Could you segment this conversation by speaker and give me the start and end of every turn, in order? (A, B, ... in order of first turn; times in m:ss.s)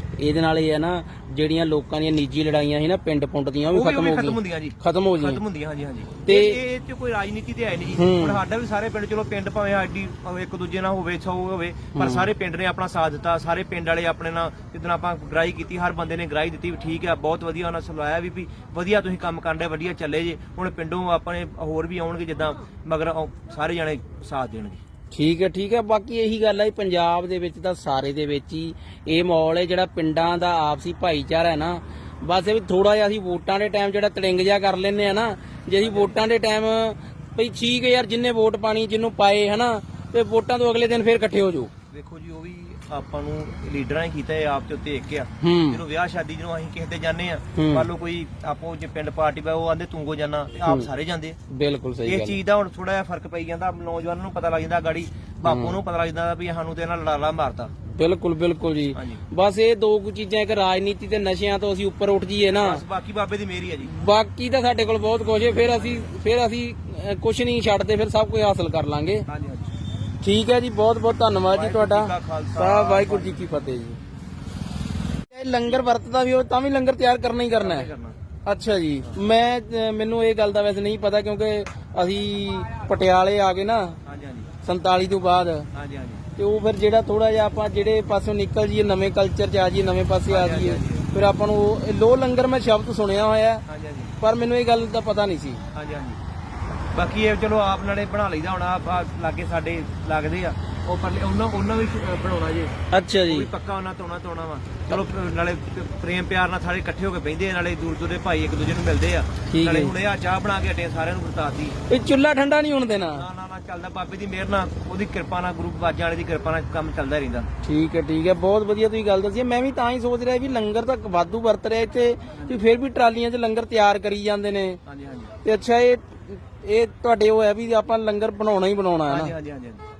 0:00.2-0:05.4 A
0:03.7-0:24.8 B
0:06.2-0:06.6 A
0:08.0-0:08.4 A
0:11.9-0:12.3 A
0:25.1-0:41.7 A
0:35.8-0:36.2 B
0:41.9-0:51.4 B
0:45.4-0:45.8 A
0:47.5-0:47.9 A
0:51.5-0:52.4 A
0:52.0-0:57.7 B
0:55.4-0:55.8 A
0:57.9-1:02.8 A
0:58.9-0:59.2 B
1:02.5-1:03.9 B
1:03.8-1:09.2 A
1:09.3-1:09.7 B
1:10.2-1:14.0 A
1:11.5-1:13.4 B
1:15.3-1:17.9 A
1:17.6-1:18.2 B
1:18.4-1:24.0 A
1:24.0-1:24.5 B
1:24.6-1:25.7 A
1:25.7-1:26.2 B
1:26.4-1:33.6 A
1:30.3-1:31.1 B
1:33.6-1:34.2 B
1:34.2-1:35.6 A
1:35.7-1:36.2 B
1:36.9-1:42.7 B
1:42.9-1:43.5 A
1:43.2-1:51.8 B
1:49.5-1:49.9 A
1:51.9-1:53.2 A
1:53.1-1:57.5 B
1:57.6-2:04.8 A
2:02.3-2:02.6 B
2:04.8-2:05.4 B
2:05.4-2:09.3 A
2:09.1-2:09.8 B